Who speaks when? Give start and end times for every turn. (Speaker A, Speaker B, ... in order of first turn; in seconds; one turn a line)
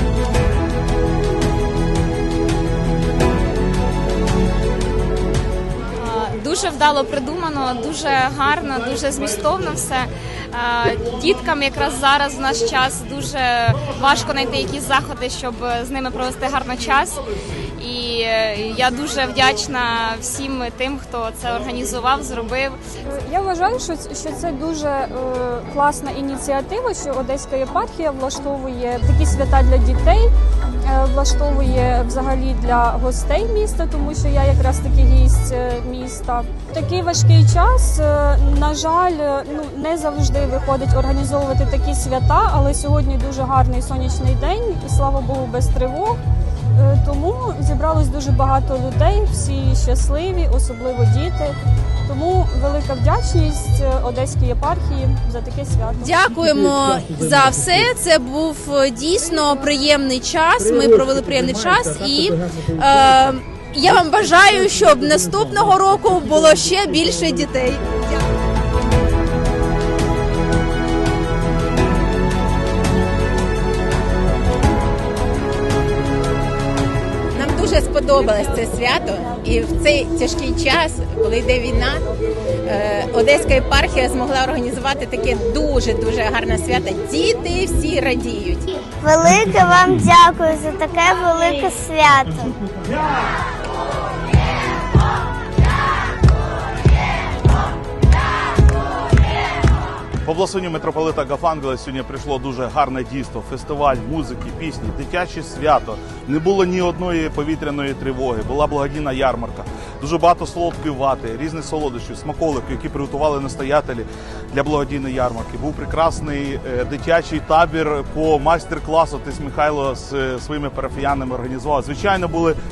Speaker A: 6.0-17.2
Speaker A: 17.8-22.8
Speaker B: 23.1-30.3
Speaker B: 30.9-46.2
Speaker B: 46.8-51.5
Speaker B: 52.1-56.1
Speaker C: 56.0-67.9
Speaker D: 77.3-82.0
Speaker D: 82.6-88.7
Speaker E: 89.0-92.5
Speaker F: 100.2-122.6